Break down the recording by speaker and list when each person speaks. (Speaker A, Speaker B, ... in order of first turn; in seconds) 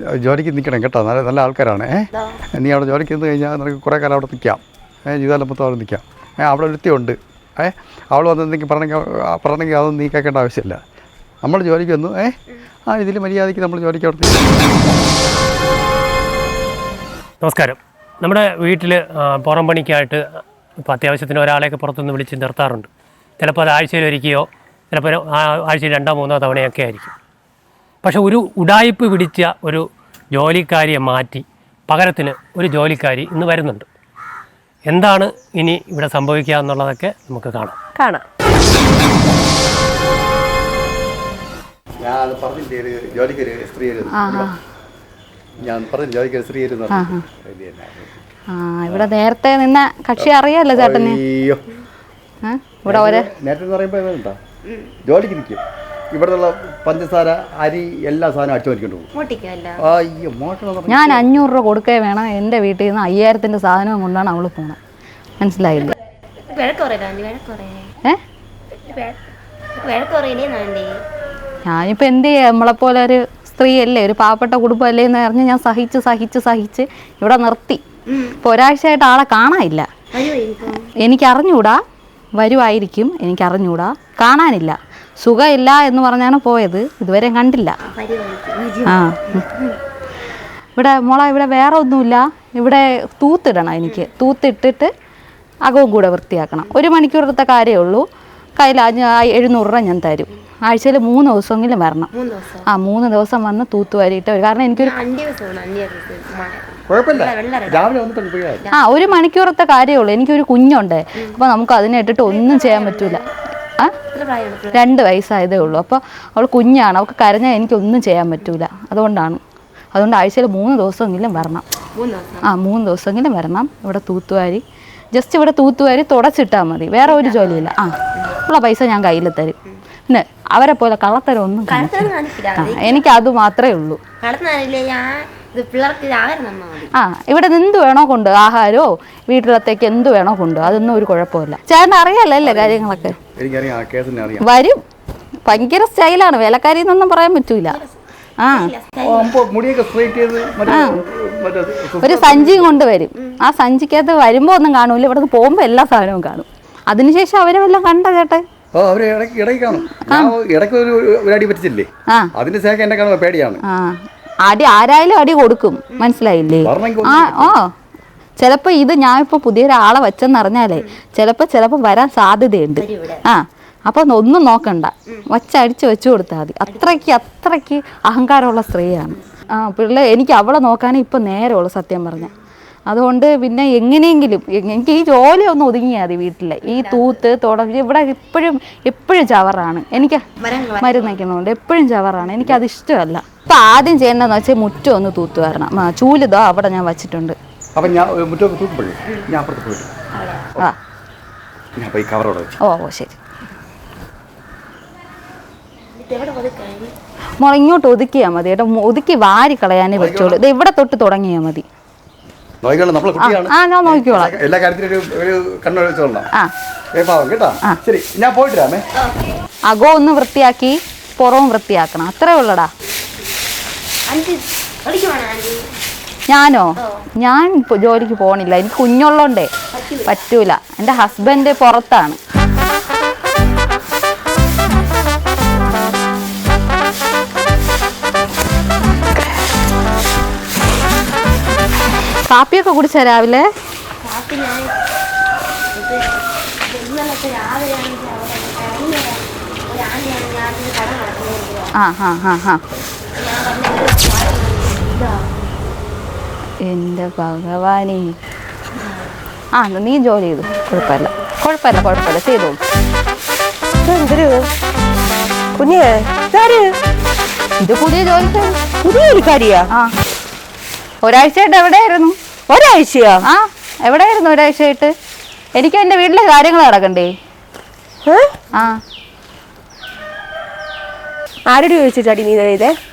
Speaker A: 0.1-10.8, 11.4-12.3, 12.9-14.5, 42.0-44.5, 45.6-48.2, 50.2-51.6, 52.9-54.4, 55.0-59.1, 59.8-61.5, 106.9-108.7, 142.4-144.4, 149.0-152.8, 158.7-163.6, 166.6-167.6, 197.7-199.9, 201.8-202.5, 209.9-210.4, 212.6-216.3, 216.9-218.8
Speaker B: 17.4-20.2, 20.8-22.9, 23.4-27.1, 28.0-33.9, 34.9-37.8
Speaker C: 38.0-38.2, 263.8-264.5, 265.6-266.7, 268.8-269.7, 272.5-273.2, 278.1-278.3, 281.5-282.7
Speaker D: 44.1-44.6, 46.9-47.2, 48.5-51.2, 52.4-53.3, 60.9-64.8, 65.4-65.9, 71.7-77.8, 78.4-79.9, 81.0-81.8, 82.4-87.8, 88.9-89.4, 90.8-94.9, 95.6-98.0, 98.6-102.1, 102.7-105.0, 108.7-113.2, 114.7-119.4, 119.9-121.6, 122.4-124.6, 125.1-127.9, 128.4-129.6, 130.1-134.0, 136.9-143.2, 144.4-144.8, 145.4-147.8, 148.4-148.7, 150.7-151.0, 152.0-158.4, 159.9-160.3, 163.6-167.7, 168.4-182.3, 182.9-190.2, 190.8-197.3, 202.6-203.2, 207.4-211.6, 213.2-214.3, 219.7-222.7, 226.3-229.5, 230.1-232.2, 242.3-243.5, 251.8-252.6, 256.6-258.1, 259.5-262.6, 267.6-268.6, 271.0-272.1, 273.2-274.9, 275.6-277.1, 278.5-278.8
Speaker E: 54.6-54.9, 59.1-59.8, 66.5-67.9, 68.7-69.2, 69.8-71.0, 78.1-78.4, 80.1-80.9, 87.8-89.8, 102.1-102.7, 104.8-107.9, 108.6-109.1, 112.2-113.3, 114.1-114.9, 121.9-122.5, 127.1-127.8, 131.7-133.1, 134.2-136.9, 147.7-147.9, 148.5-149.3, 165.9-166.1, 172.8-173.2, 176.7-177.0, 186.6-187.1, 190.4-191.2, 200.1-200.5, 205.9-206.9, 224.1-225.7, 229.7-230.2, 244.0-244.7, 245.7-251.7, 253.1-255.3, 258.8-259.1, 260.5-261.1